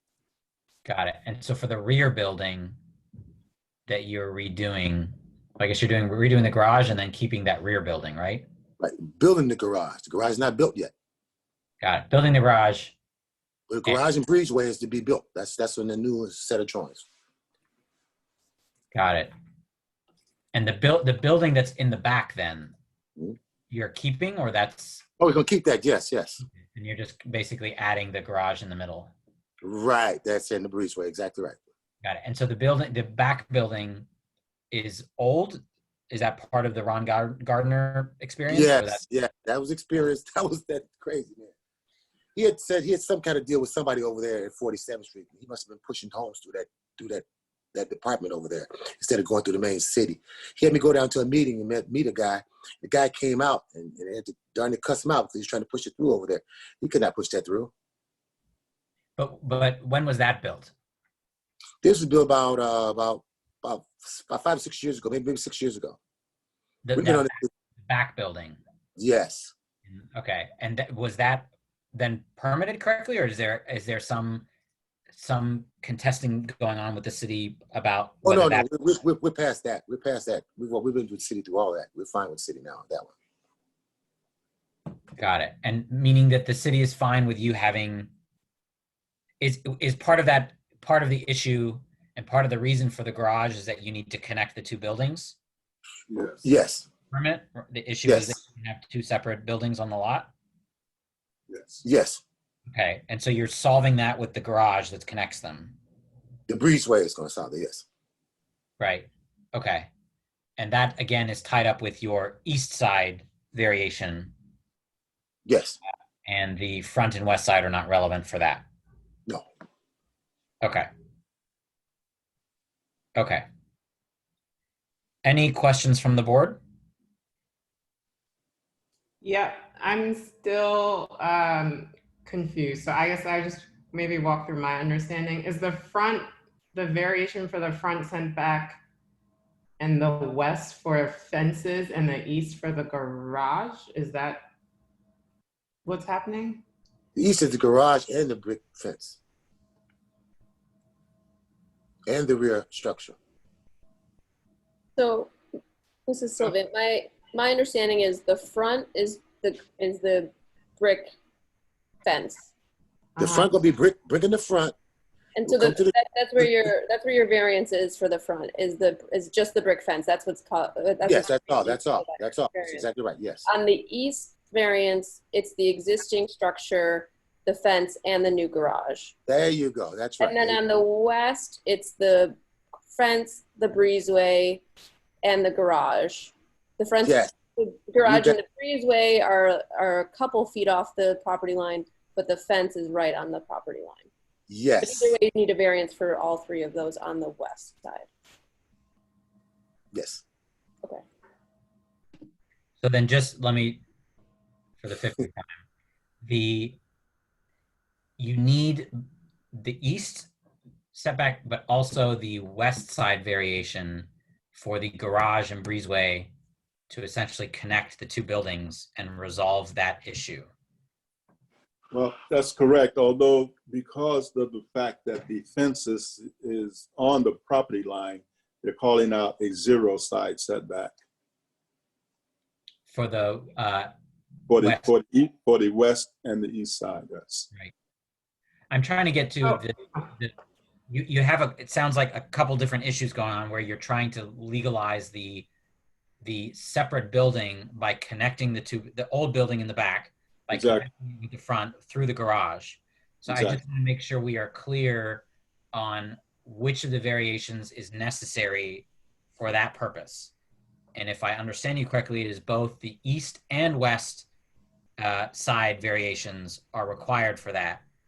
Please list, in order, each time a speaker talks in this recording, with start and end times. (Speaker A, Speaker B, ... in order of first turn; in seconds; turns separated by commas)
Speaker A: 0.8-2.8, Speaker A: 3.9-8.4, Speaker B: 8.8-10.9, Speaker A: 11.8-12.9, Speaker B: 13.7-17.0, Speaker A: 18.9-19.3, Speaker A: 20.5-22.7, Speaker A: 23.7-25.0, Speaker B: 25.2-26.4, Speaker A: 26.4-29.1, Speaker B: 29.6-31.6, Speaker A: 32.0-34.0, Speaker A: 34.7-39.0, Speaker B: 38.5-41.5, Speaker B: 42.3-57.7, Speaker A: 59.2-60.7, Speaker B: 61.8-66.0, Speaker A: 66.8-68.6, Speaker B: 67.0-67.5, Speaker B: 69.0-69.5, Speaker A: 69.9-74.5, Speaker A: 75.1-78.7, Speaker B: 78.2-83.1, Speaker A: 85.2-88.1, Speaker A: 89.4-95.3, Speaker C: 96.1-96.4, Speaker B: 96.4-96.9, Speaker A: 97.1-100.3, Speaker B: 98.0-98.4, Speaker C: 101.5-101.8, Speaker B: 101.8-102.2, Speaker A: 102.7-105.8, Speaker B: 106.5-107.8, Speaker A: 108.8-109.9, Speaker A: 110.6-114.3, Speaker B: 115.5-115.8, Speaker A: 116.2-118.6, Speaker A: 120.6-120.9, Speaker A: 123.2-123.4, Speaker A: 125.2-126.6, Speaker D: 129.2-138.8, Speaker D: 139.8-144.4, Speaker D: 145.8-146.6, Speaker B: 147.1-149.2, Speaker B: 152.1-153.2, Speaker E: 155.0-155.3, Speaker E: 156.1-161.1, Speaker E: 162.0-162.5, Speaker D: 163.2-163.5, Speaker B: 163.2-164.7, Speaker E: 165.4-172.8, Speaker B: 165.4-166.7, Speaker B: 171.1-173.4, Speaker E: 173.4-179.1, Speaker B: 179.3-180.6, Speaker E: 180.2-182.3, Speaker E: 182.9-184.6, Speaker E: 185.2-194.1, Speaker B: 187.0-187.3, Speaker B: 188.0-188.4, Speaker B: 194.5-195.1, Speaker E: 194.8-198.1, Speaker B: 199.9-200.2, Speaker A: 202.8-203.8, Speaker A: 204.8-205.6, Speaker A: 206.2-206.8, Speaker A: 208.2-208.9, Speaker A: 209.5-210.3, Speaker A: 210.9-216.3, Speaker A: 216.9-220.5, Speaker C: 221.9-230.9, Speaker A: 232.9-233.9, Speaker A: 234.6-234.9, Speaker C: 234.7-237.5, Speaker A: 238.7-240.3, Speaker A: 240.9-245.5, Speaker A: 246.2-260.3, Speaker C: 250.5-250.8, Speaker C: 253.3-253.6, Speaker A: 260.9-264.3, Speaker A: 265.0-267.8